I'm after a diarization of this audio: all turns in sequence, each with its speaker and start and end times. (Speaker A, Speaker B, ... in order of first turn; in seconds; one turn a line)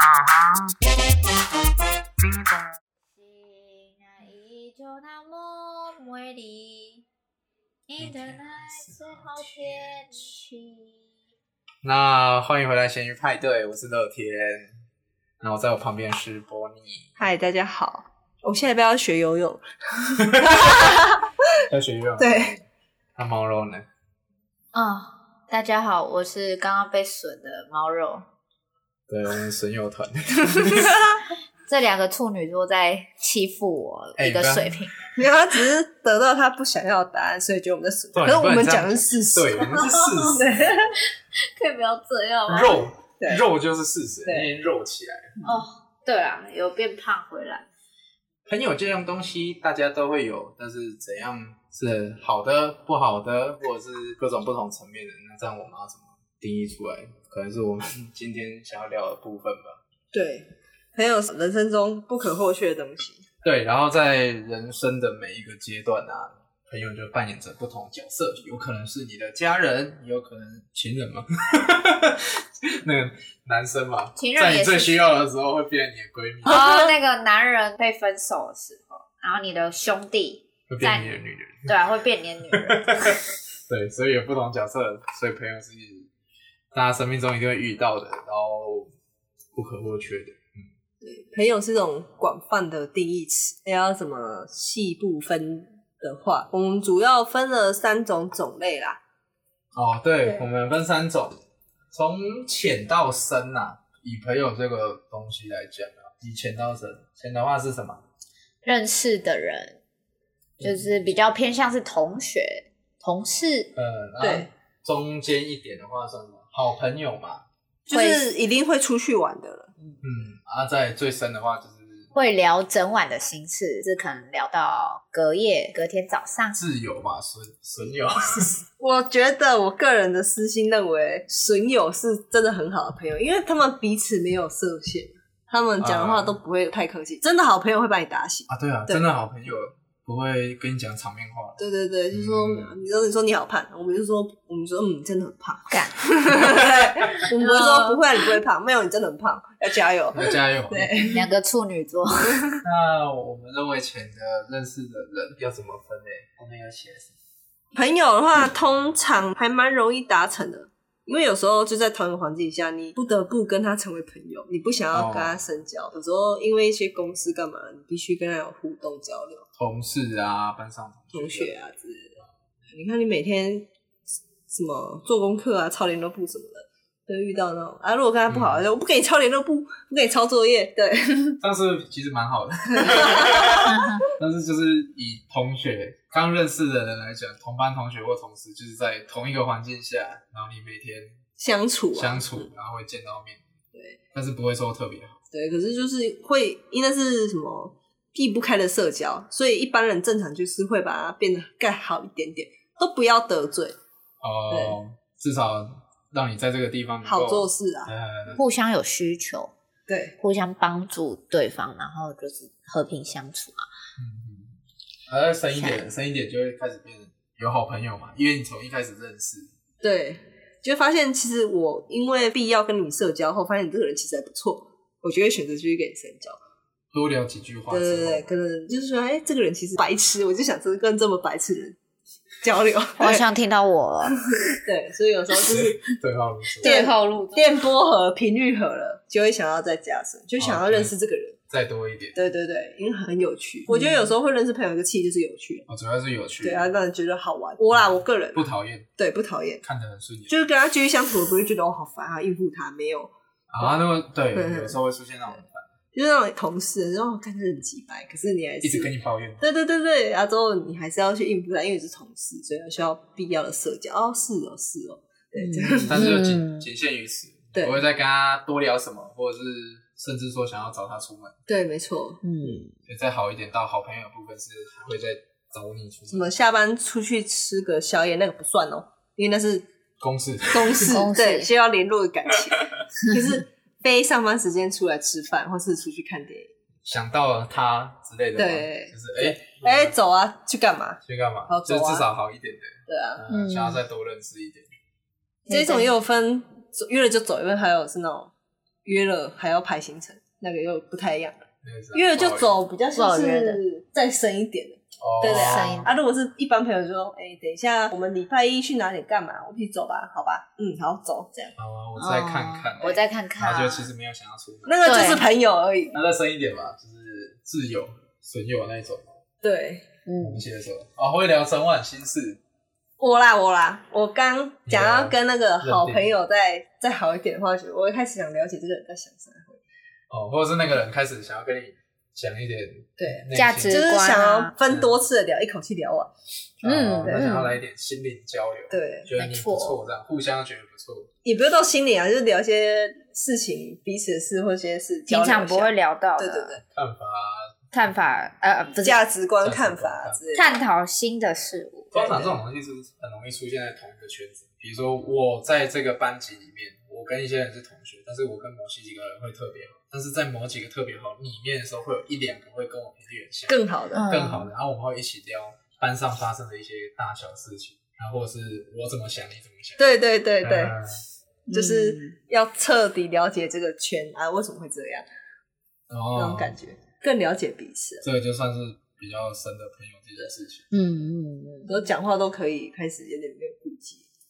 Speaker A: 3.2-7.0
Speaker A: 7.9-11.0
Speaker B: 8.0-9.9
Speaker B: 11.8-14.7
Speaker B: 15.4-17.2
Speaker C: 17.2-21.6
Speaker B: 20.2-21.0
Speaker B: 21.7-22.6
Speaker C: 22.2-22.5
Speaker B: 23.2-23.9
Speaker A: 24.7-28.2
Speaker B: 29.1-31.0
Speaker C: 30.5-31.1
Speaker A: 31.7-35.0
Speaker B: 34.2-34.9
Speaker C: 35.2-41.0
Speaker B: 38.1-40.8
Speaker A: 39.9-40.3
Speaker A: 41.4-42.9
Speaker B: 42.5-45.4
Speaker C: 43.2-43.5
Speaker A: 45.4-47.7
Speaker B: 48.5-59.8
Speaker C: 60.1-63.2
Speaker B: 63.4-76.6
Speaker A: 74.2-75.0
Speaker A: 76.5-81.1
Speaker B: 80.7-81.7
Speaker A: 81.7-83.2
Speaker B: 82.5-86.1
Speaker B: 86.7-88.9
Speaker B: 89.5-90.6
Speaker C: 91.0-99.0
Speaker B: 99.7-101.4
Speaker B: 101.9-108.0
Speaker A: 108.7-109.8
Speaker B: 110.6-110.9
Speaker A: 110.6-113.7
Speaker B: 113.8-117.5
Speaker C: 114.2-114.5
Speaker C: 117.9-119.7
Speaker A: 117.9-118.2
Speaker B: 120.0-122.1
Speaker A: 122.1-126.6
Speaker B: 126.6-128.6
Speaker C: 128.8-139.0
Speaker B: 135.8-136.4
Speaker B: 138.5-141.6
Speaker C: 141.6-151.3
Speaker B: 142.1-142.8
Speaker A: 145.7-148.0
Speaker B: 150.1-151.1
Speaker A: 151.1-152.4
Speaker C: 152.3-152.6
Speaker B: 152.6-157.1
Speaker C: 157.8-169.4
Speaker B: 164.9-165.4
Speaker B: 169.6-171.5
Speaker C: 171.1-172.2
Speaker C: 172.7-173.7
Speaker C: 174.5-181.4
Speaker B: 178.3-178.7
Speaker B: 181.4-191.2
Speaker C: 182.7-183.6
Speaker A: 183.7-184.1
Speaker C: 191.4-192.3
Speaker B: 191.9-193.4
Speaker B: 194.1-195.2
Speaker C: 195.3-203.8
Speaker B: 204.2-208.4
Speaker C: 204.5-204.8
Speaker C: 207.1-207.9
Speaker A: 208.3-209.5
Speaker C: 209.9-210.2
Speaker A: 210.2-213.7
Speaker B: 214.0-214.6
Speaker B: 215.1-219.5
Speaker A: 215.6-215.8
Speaker C: 219.8-226.4
Speaker B: 226.9-228.3
Speaker C: 227.7-231.8
Speaker C: 232.4-233.2
Speaker A: 233.0-234.6
Speaker C: 234.6-236.0
Speaker B: 235.5-236.7
Speaker C: 236.6-241.4
Speaker A: 236.6-237.4
Speaker B: 240.4-240.9
Speaker B: 241.5-242.2
Speaker C: 242.2-245.7
Speaker A: 243.7-244.1
Speaker B: 245.7-246.7
Speaker C: 246.4-249.6
Speaker B: 248.3-248.9
Speaker B: 249.6-250.3
Speaker C: 250.3-253.7
Speaker B: 253.5-255.7
Speaker C: 254.3-254.8
Speaker C: 255.9-266.1
Speaker B: 258.6-259.4
Speaker A: 265.4-266.7
Speaker B: 265.9-271.4
Speaker C: 267.6-267.8
Speaker C: 271.5-272.6
Speaker A: 272.2-272.7
Speaker B: 272.9-276.3
Speaker C: 276.1-279.7
Speaker B: 280.0-281.0
Speaker C: 280.5-286.5
Speaker A: 280.9-281.5
Speaker B: 286.9-289.9
Speaker C: 288.4-292.1
Speaker B: 291.1-294.7
Speaker C: 292.9-293.2
Speaker A: 293.3-293.8
Speaker A: 295.5-295.9
Speaker C: 295.5-298.3
Speaker C: 298.9-311.6
Speaker B: 301.6-302.6
Speaker A: 303.0-303.6
Speaker B: 305.0-305.9
Speaker A: 305.2-305.9
Speaker B: 311.6-314.9
Speaker A: 312.0-313.9
Speaker C: 314.7-316.0
Speaker A: 314.8-315.2
Speaker B: 315.9-319.2
Speaker C: 319.4-319.9
Speaker A: 320.1-320.4
Speaker B: 320.2-322.4
Speaker C: 323.0-329.6
Speaker B: 324.7-326.1
Speaker B: 330.1-333.9
Speaker C: 333.0-336.1
Speaker A: 333.3-334.5
Speaker B: 334.7-335.0
Speaker B: 336.6-341.1
Speaker A: 336.6-337.5
Speaker C: 337.0-337.4
Speaker C: 338.7-339.1
Speaker A: 339.2-339.8
Speaker C: 341.2-346.6
Speaker A: 345.1-346.6
Speaker B: 346.7-347.6
Speaker A: 347.7-349.0
Speaker C: 348.8-350.5
Speaker B: 349.4-350.2
Speaker A: 350.3-352.3
Speaker B: 351.9-369.8
Speaker C: 363.5-364.1
Speaker A: 363.9-364.5
Speaker C: 369.8-370.7
Speaker B: 370.4-371.0
Speaker A: 371.5-372.1
Speaker C: 371.5-375.1
Speaker B: 375.9-376.6
Speaker C: 376.1-378.0
Speaker B: 378.0-380.7
Speaker A: 380.7-381.7
Speaker C: 381.7-384.1